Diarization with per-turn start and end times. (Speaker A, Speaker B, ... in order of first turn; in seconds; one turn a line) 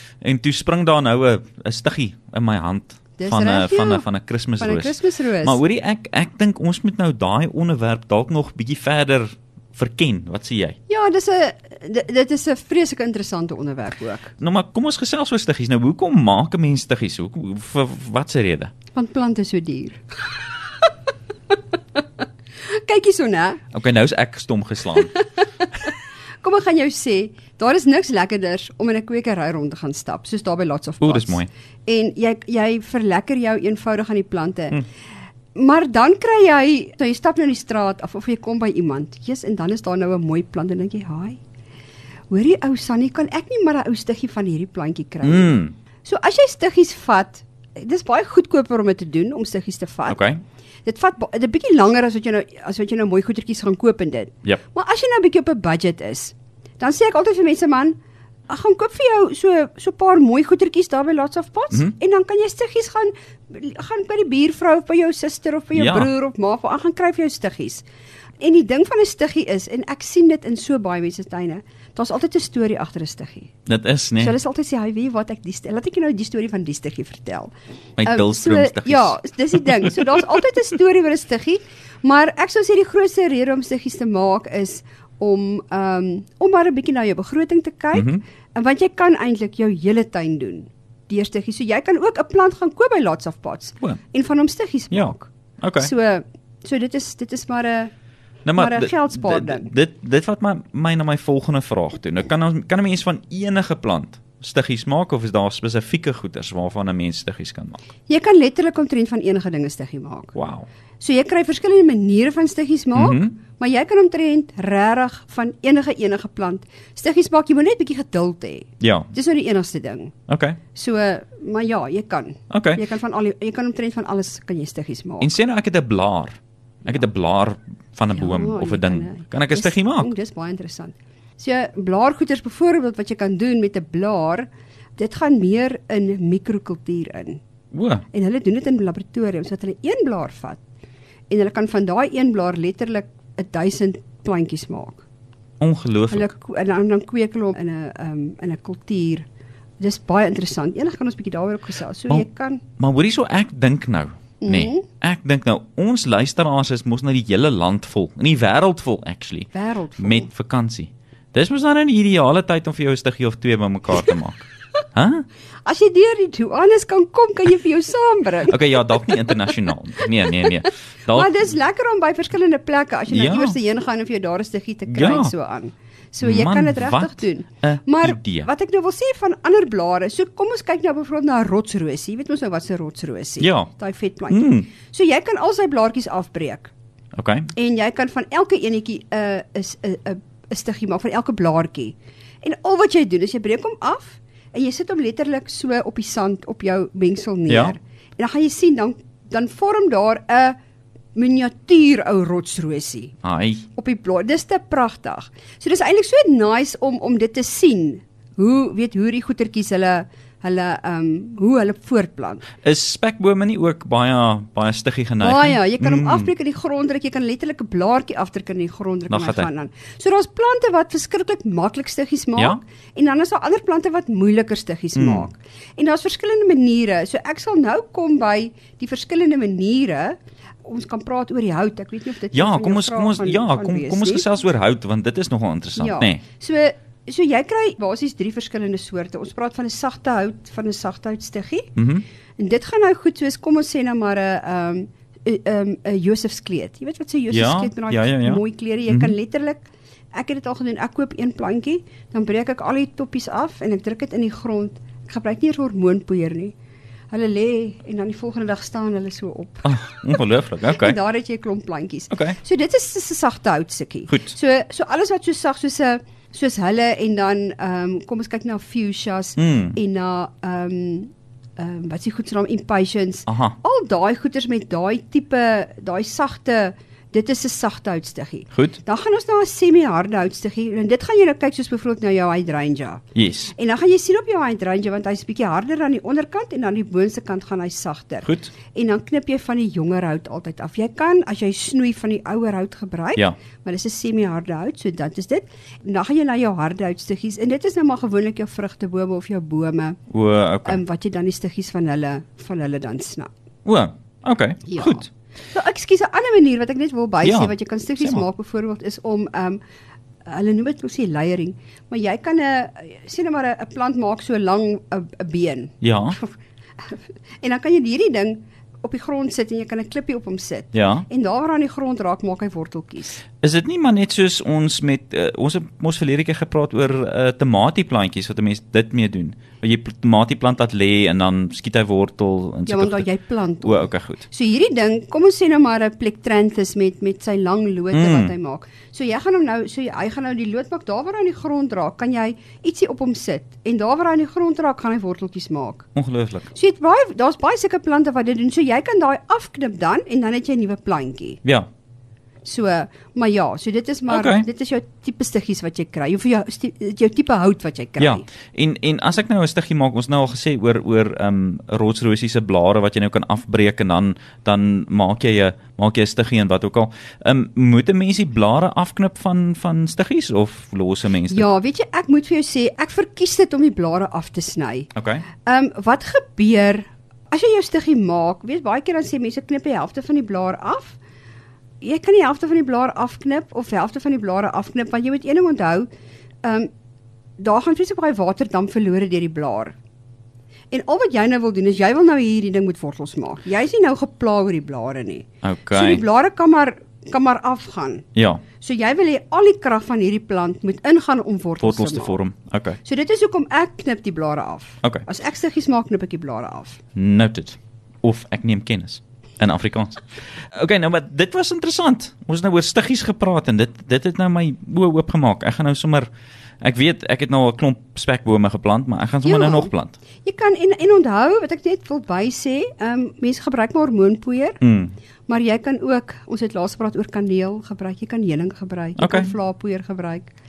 Speaker A: 0.2-10.8
Speaker B: 3.2-4.0
Speaker B: 4.6-5.6
Speaker B: 10.9-14.3
Speaker A: 14.4-18.7
Speaker B: 18.9-20.9
Speaker B: 22.6-23.6
Speaker A: 23.7-25.1
Speaker B: 24.9-34.8
Speaker A: 31.0-31.5
Speaker B: 35.5-41.4
Speaker B: 42.3-50.3
Speaker A: 45.2-45.7
Speaker A: 50.1-50.4
Speaker B: 50.8-58.0
Speaker B: 58.5-67.8
Speaker A: 65.7-66.1
Speaker B: 68.4-73.5
Speaker A: 73.7-74.3
Speaker B: 74.2-77.5
Speaker A: 78.0-79.2
Speaker B: 78.0-97.9
Speaker A: 87.9-88.2
Speaker A: 94.9-95.9
Speaker A: 98.4-107.9
Speaker B: 98.5-99.7
Speaker B: 108.1-110.3
Speaker A: 110.3-110.7
Speaker B: 111.0-120.1
Speaker A: 112.9-113.3
Speaker A: 118.8-119.1
Speaker A: 120.3-120.6
Speaker B: 120.7-125.3
Speaker A: 122.5-122.8
Speaker A: 125.2-130.1
Speaker B: 128.1-137.4
Speaker A: 137.7-138.0
Speaker B: 138.1-140.6
Speaker B: 141.3-145.0
Speaker A: 145.6-146.3
Speaker B: 146.1-149.2
Speaker B: 149.8-152.6
Speaker A: 152.8-164.4
Speaker B: 154.4-154.8
Speaker B: 159.5-160.3
Speaker A: 164.9-165.2
Speaker B: 165.6-169.4
Speaker A: 168.5-171.4
Speaker B: 170.2-170.6
Speaker B: 171.1-186.7
Speaker A: 173.1-173.6
Speaker A: 174.9-175.3
Speaker A: 176.2-178.5
Speaker A: 183.4-183.7
Speaker A: 184.3-184.7
Speaker A: 187.1-187.5
Speaker B: 187.5-200.6
Speaker A: 197.5-197.7
Speaker B: 201.1-203.1
Speaker A: 203.2-203.6
Speaker B: 203.8-212.5
Speaker A: 212.6-216.3
Speaker B: 215.2-234.2
Speaker A: 219.1-219.5
Speaker A: 224.9-225.3
Speaker A: 232.3-236.2
Speaker B: 235.8-241.8
Speaker A: 241.8-242.0
Speaker B: 242.4-256.5
Speaker A: 247.3-249.1
Speaker B: 257.1-259.7
Speaker A: 259.6-261.0
Speaker B: 260.6-300.0
Speaker A: 262.1-262.4
Speaker A: 264.1-264.3
Speaker A: 269.4-269.8
Speaker A: 273.3-273.6
Speaker A: 278.5-278.8
Speaker A: 283.1-283.5
Speaker A: 288.2-288.5
Speaker A: 300.1-300.8
Speaker B: 300.6-303.3
Speaker A: 303.6-305.1
Speaker B: 304.7-309.6
Speaker A: 307.2-308.2
Speaker B: 310.2-323.2
Speaker A: 315.8-316.2
Speaker A: 320.7-321.1
Speaker A: 323.4-333.1
Speaker B: 332.7-345.9
Speaker A: 333.6-334.2
Speaker A: 337.9-338.3
Speaker A: 345.9-346.5
Speaker B: 346.5-351.4
Speaker B: 352.4-358.2
Speaker A: 354.1-354.4
Speaker A: 358.0-371.5
Speaker B: 371.3-374.9
Speaker A: 374.9-375.2
Speaker B: 375.4-381.0
Speaker B: 381.8-385.9
Speaker B: 386.4-386.7
Speaker B: 387.4-389.7
Speaker B: 390.7-398.1
Speaker A: 395.4-396.0
Speaker A: 398.1-398.4
Speaker B: 398.6-402.2
Speaker A: 401.6-402.8
Speaker B: 402.8-406.8
Speaker A: 406.9-416.1
Speaker A: 416.6-419.9
Speaker B: 419.2-419.7
Speaker B: 420.2-424.6
Speaker A: 424.6-424.9
Speaker B: 425.3-430.3
Speaker A: 429.0-429.3